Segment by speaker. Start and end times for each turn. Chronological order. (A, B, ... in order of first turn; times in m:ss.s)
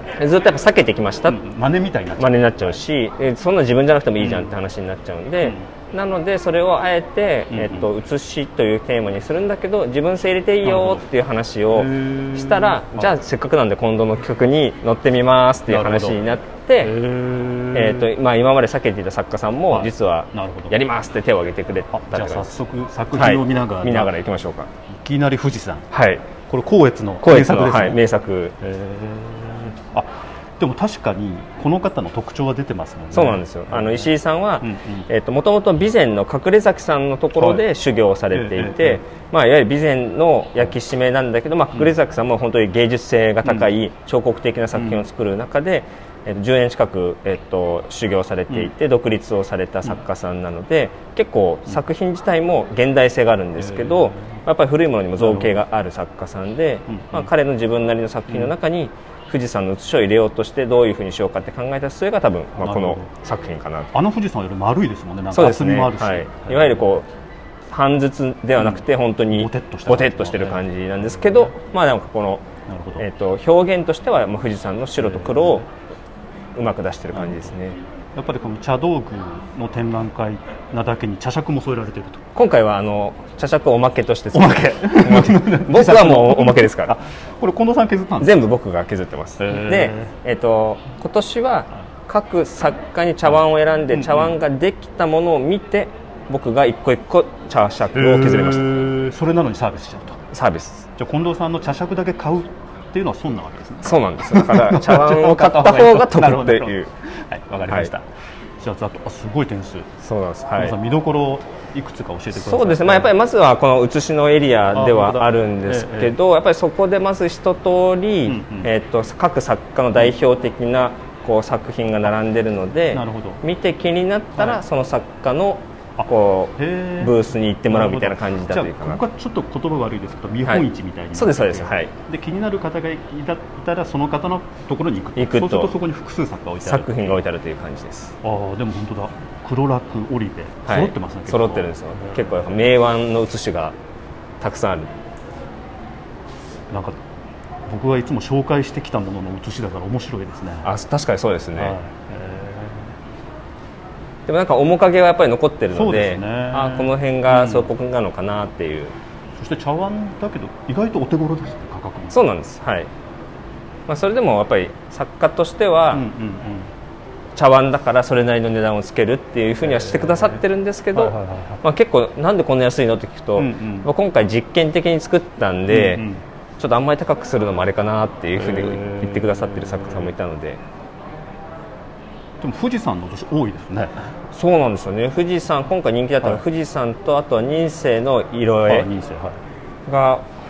0:00.2-0:01.4 A
0:01.3-0:02.8 B
0:02.2-0:17.0 A
0:04.2-0:04.6 B
0:05.4-0:05.7 B
0:07.5-0:07.9 B
0:10.6-0:11.1 B
0:11.7-0:13.1 B
0:15.7-0:16.2 B
0:16.8-0:18.1 B
0:17.7-0:22.6 A
0:19.7-0:20.8 B
0:21.9-0:24.1 B
0:23.2-0:24.7 A
0:24.9-0:25.9 B
0:25.9-0:26.3 A
0:26.5-0:28.0 B
0:27.2-0:28.6 A
0:28.6-0:35.1 B
0:33.1-1:03.9 A
0:37.4-0:37.6 B
0:38.3-0:39.0 B
0:44.8-0:45.0 B
0:53.6-0:54.4 B
0:55.2-0:55.6 B
0:56.9-0:57.3 B
0:58.3-0:58.5 B
1:02.6-1:03.1 B
1:03.9-1:06.9 B
1:05.3-1:07.1 A
1:07.7-1:12.5 A
1:08.6-1:11.5 B
1:12.7-1:13.1 B
1:13.0-1:15.7 A
1:15.0-1:15.6 B
1:16.6-1:17.8 A
1:17.1-1:17.6 B
1:18.2-1:22.3 B
1:22.4-1:27.0 A
1:24.3-1:28.4 B
1:28.2-1:38.9 A
1:29.4-1:30.1 B
1:33.9-1:34.4 B
1:38.0-1:40.2 B
1:40.3-1:40.9 A
1:41.0-1:48.1 B
1:43.8-1:46.9 A
1:48.6-1:49.9 B
1:50.0-1:50.8 A
1:50.6-1:53.1 B
1:52.3-2:09.0 A
1:54.7-1:56.2 B
1:58.3-1:58.7 B
2:02.9-2:03.4 B
2:06.0-2:07.2 B
2:07.7-2:17.2 B
2:10.5-2:11.9 A
2:15.2-2:15.7 A
2:16.6-2:18.1 A
2:18.2-2:22.3 B
2:20.7-2:23.8 A
2:24.4-2:24.9 A
2:26.7-2:27.0 B
2:27.7-2:30.7 B
2:30.6-2:31.8 A
2:31.6-2:33.0 B
2:34.3-2:39.0 A
2:35.7-2:37.7 B
2:39.4-2:42.2 B
2:42.1-2:42.9 A
2:43.9-2:46.1 A
2:45.9-2:46.7 B
2:47.4-2:56.0 A
2:49.6-2:50.4 B
2:50.9-2:51.6 B
2:53.4-2:53.9 B
2:55.7-2:56.2 B
2:56.6-3:00.6 A
2:58.4-3:00.1 B
3:02.4-3:04.1 B
3:04.3-3:08.9 A
3:08.7-3:09.4 B
3:09.9-3:10.3 A